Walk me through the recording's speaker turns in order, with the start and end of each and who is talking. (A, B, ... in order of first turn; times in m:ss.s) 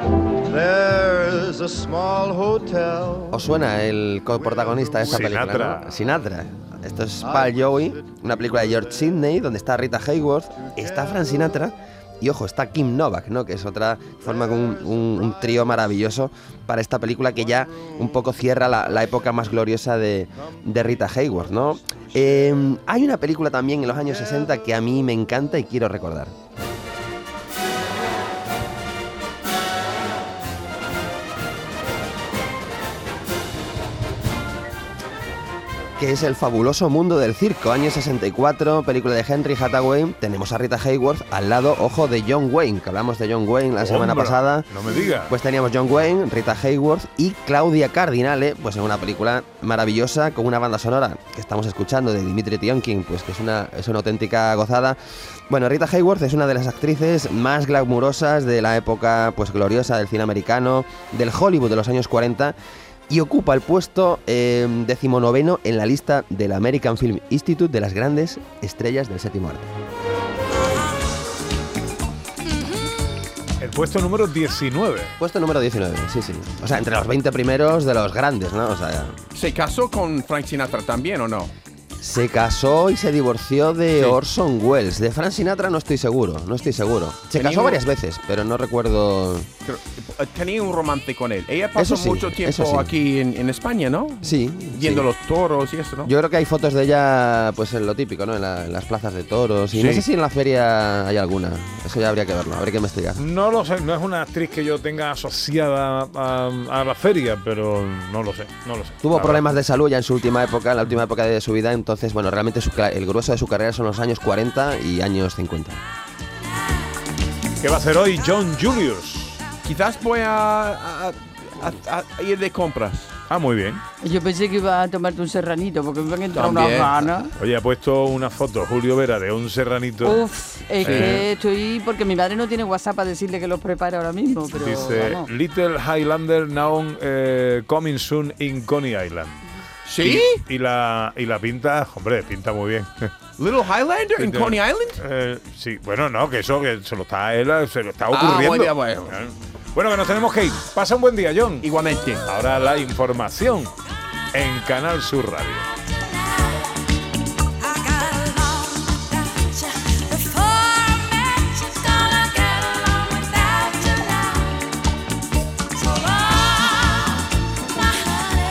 0:00.7-0:03.1 A
0:03.2-0:26.3 B
0:05.1-0:05.9 C
0:36.0-0:44.7 B
0:43.8-0:45.3 C
0:45.2-0:55.0 B
0:55.5-1:02.5 B
1:03.1-1:09.7 B
1:13.6-1:15.1 C
1:15.2-1:19.2 B
1:19.3-1:21.5 D
1:22.0-1:29.5 B
1:23.9-1:24.2 D
1:27.3-1:27.8 D
1:29.6-1:36.1 D
1:31.8-1:32.9 B
1:34.2-1:35.1 B
1:36.0-1:43.2 B
1:39.7-1:40.0 D
1:43.2-1:49.4 C
1:49.0-1:55.8 B
1:57.6-1:59.4 C
1:59.6-2:03.1 D
2:03.3-2:03.8 C
2:04.0-2:07.3 E
2:06.3-2:07.3 D
2:07.4-2:10.2 C
2:10.0-2:15.3 E
2:10.8-2:11.2 D
2:10.8-2:11.2 C
2:14.6-2:19.4 C
2:19.9-2:20.4 D
2:20.0-2:23.1 C
2:23.4-2:25.0 D
2:24.2-2:31.7 C
2:28.1-2:29.2 D
2:31.6-2:32.2 D
2:32.2-2:33.7 C
2:34.3-2:35.6 C
2:37.9-2:38.4 D
2:40.7-2:41.4 D